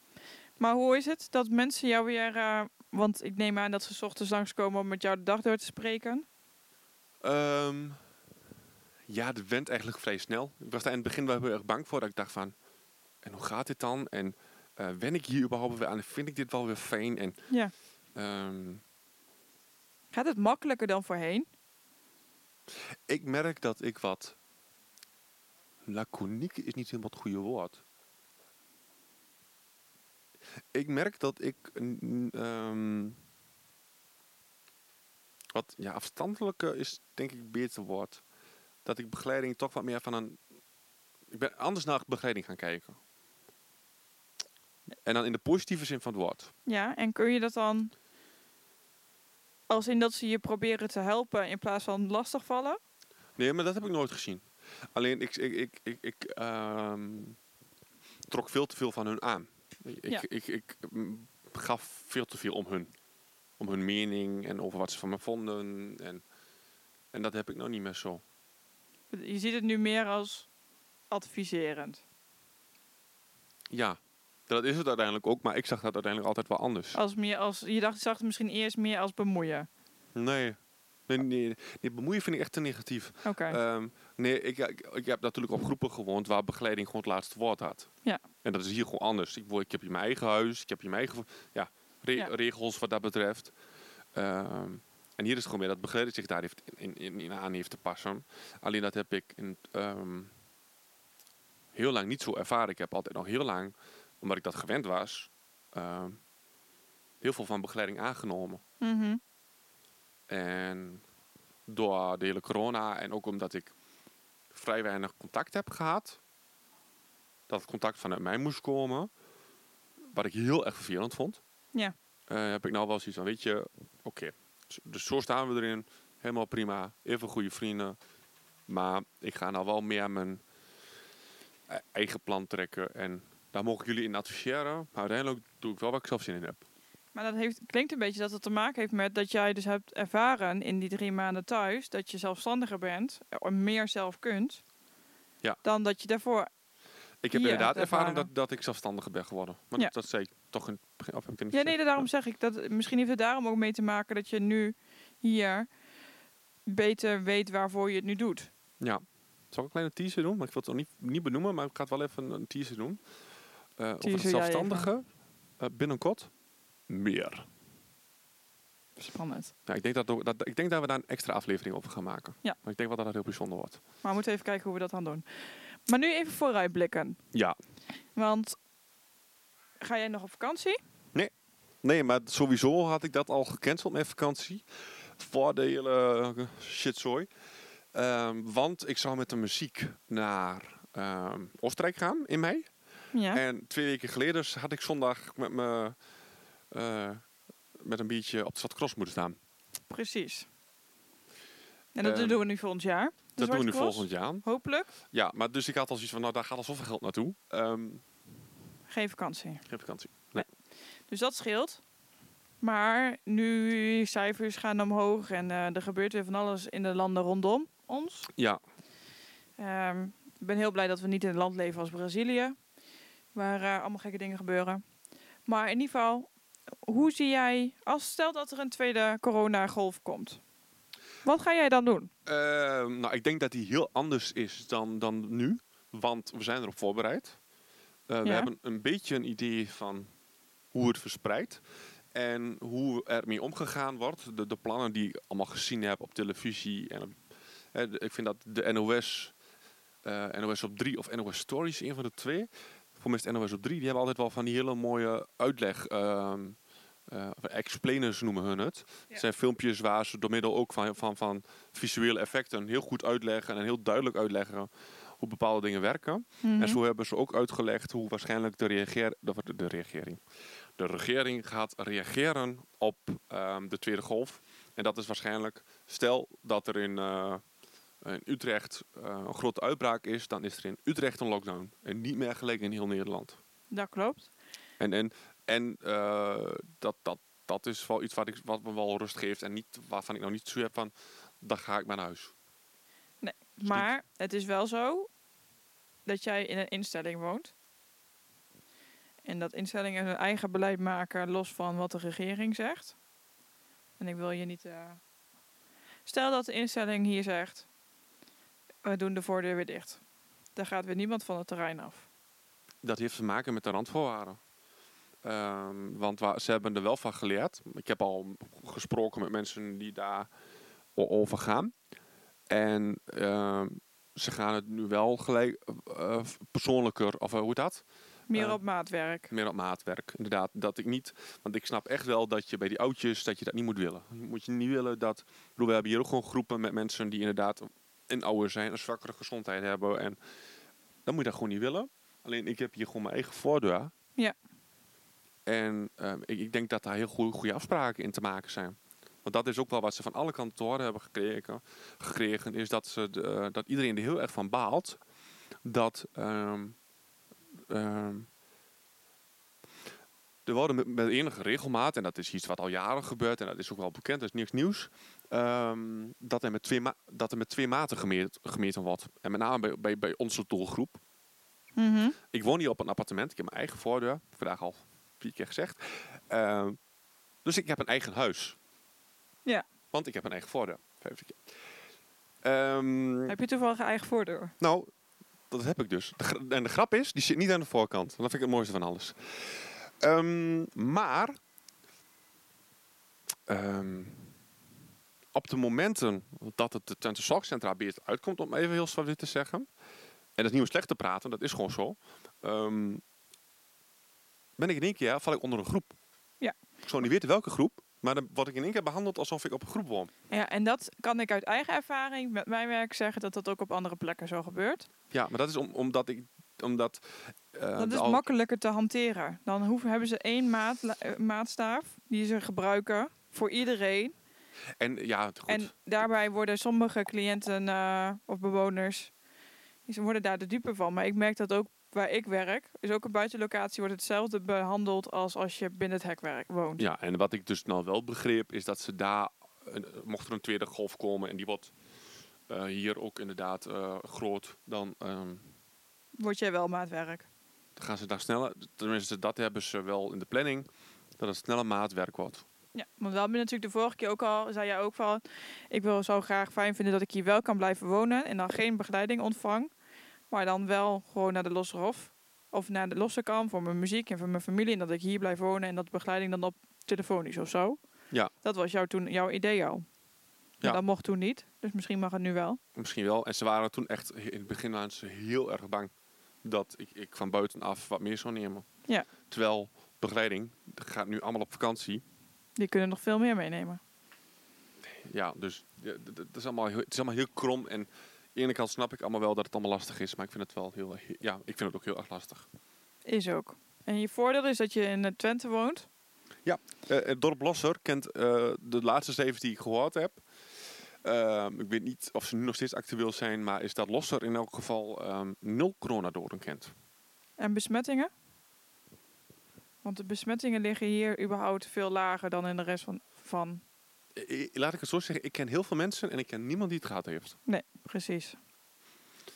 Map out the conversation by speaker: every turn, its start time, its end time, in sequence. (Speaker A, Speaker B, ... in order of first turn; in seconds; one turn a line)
Speaker A: 0.6-6.2
Speaker B: 7.2-8.0
Speaker B: 9.1-12.5
Speaker B: 13.2-17.4
Speaker B: 18.1-18.8
Speaker A: 20.1-21.5
Speaker B: 23.1-24.4
Speaker B: 25.9-27.8
Speaker B: 30.7-33.2
Speaker B: 35.5-38.2
Speaker B: 38.8-40.4
Speaker B: 41.3-43.0
Speaker B: 45.0-46.5
Speaker A: 46.6-47.9
Speaker A: 49.7-52.8
Speaker B: 53.4-57.4
Speaker B: 58.3-62.9
Speaker B: 63.6-66.2
Speaker B: 67.1-68.2
Speaker A: 69.1-70.5
Speaker A: 71.1-72.0
Speaker B: 73.7-77.0
Speaker A: 76.9-79.7
Speaker B: 80.1-80.6
Speaker B: 81.1-87.9
Speaker A: 83.2-83.6
Speaker B: 88.4-93.5
Speaker B: 94.1-100.3
Speaker B: 101.7-106.2
Speaker B: 107.2-108.6
Speaker A: 108.8-109.2
Speaker B: 110.3-111.0
Speaker B: 111.7-113.7
Speaker B: 114.5-116.2
Speaker B: 117.5-119.1
Speaker B: 120.1-121.4
Speaker B: 122.3-128.0
Speaker B: 128.7-130.4
Speaker B: 131.7-136.6
Speaker A: 137.1-144.6
Speaker A: 145.6-146.5
Speaker B: 147.2-152.1
Speaker A: 147.3-148.3
Speaker A: 151.5-155.7
Speaker A: 156.7-158.5
Speaker B: 158.8-163.0
Speaker B: 163.8-165.1
Speaker A: 164.0-164.9
Speaker B: 165.6-166.3
Speaker B: 166.9-167.5
Speaker A: 169.0-169.5
Speaker B: 169.7-173.8
Speaker A: 174.0-177.2
Speaker A: 178.1-178.6
Speaker A: 179.8-180.8
Speaker B: 181.8-184.6
Speaker B: 185.2-187.3
Speaker B: 187.9-192.7
Speaker A: 193.1-193.4
Speaker B: 193.3-195.9
Speaker B: 196.7-197.2
Speaker B: 197.8-199.4
Speaker A: 199.9-200.5
Speaker A: 201.9-204.9
Speaker B: 202.0-202.4
Speaker B: 203.4-204.4
Speaker B: 205.1-208.0
Speaker A: 208.9-209.6
Speaker B: 209.7-210.4
Speaker A: 211.1-211.8
Speaker A: 212.6-218.3
Speaker B: 218.3-218.6
Speaker A: 219.6-222.6
Speaker A: 223.3-224.8
Speaker A: 225.4-226.3
Speaker A: 226.8-230.4
Speaker A: 231.2-232.1
Speaker B: 232.2-237.4
Speaker B: 238.1-240.1
Speaker A: 238.2-238.5
Speaker B: 240.7-241.6
Speaker B: 242.1-247.2
Speaker B: 247.7-249.3
Speaker B: 250.0-256.6
Speaker B: 257.1-264.7
Speaker B: 265.2-270.2
Speaker A: 266.4-266.8
Speaker B: 270.8-277.4
Speaker B: 278.0-283.4
Speaker A: 283.7-284.3
Speaker B: 284.8-292.3
Speaker A: 293.2-295.1
Speaker A: 296.1-297.5
Speaker A: 299.2-302.9
Speaker A: 304.0-305.0
Speaker A: 306.1-307.6
Speaker A: 308.8-310.0
Speaker A: 310.5-312.1
Speaker B: 312.8-314.4
Speaker B: 315.2-320.3
Speaker B: 320.9-321.7
Speaker B: 322.5-328.6
Speaker A: 328.3-329.3
Speaker B: 329.3-340.2
Speaker B: 341.1-343.9
Speaker B: 345.4-355.0
Speaker B: 355.6-356.8
Speaker B: 357.7-358.3
Speaker B: 360.4-371.0
Speaker A: 371.8-372.2
Speaker B: 372.3-376.8
Speaker B: 377.4-378.6
Speaker B: 379.9-381.4
Speaker B: 382.4-383.4
Speaker A: 383.3-384.5
Speaker B: 384.6-384.9
Speaker B: 385.5-391.4
Speaker B: 393.5-394.3
Speaker B: 395.3-399.7
Speaker B: 400.4-403.0
Speaker B: 404.6-405.9
Speaker B: 406.8-410.1
Speaker A: 410.3-414.9
Speaker B: 415.1-418.2
Speaker A: 417.8-424.1
Speaker B: 424.8-425.7
Speaker A: 425.5-429.1
Speaker A: 429.9-436.8
Speaker B: 436.8-441.7
Speaker B: 442.5-445.5
Speaker A: 446.2-447.3
Speaker B: 447.8-450.7
Speaker B: 451.2-452.4
Speaker A: 452.7-459.7
Speaker A: 460.3-467.8
Speaker A: 468.4-469.9
Speaker A: 470.6-472.6
Speaker B: 472.7-475.9
Speaker B: 476.4-478.6
Speaker B: 479.3-482.0
Speaker A: 482.6-483.8
Speaker B: 484.9-492.4
Speaker A: 493.0-495.9
Speaker B: 496.4-500.2
Speaker B: 501.0-506.7
Speaker A: 507.4-508.1
Speaker A: 509.8-513.6
Speaker B: 514.1-517.4
Speaker A: 517.5-518.4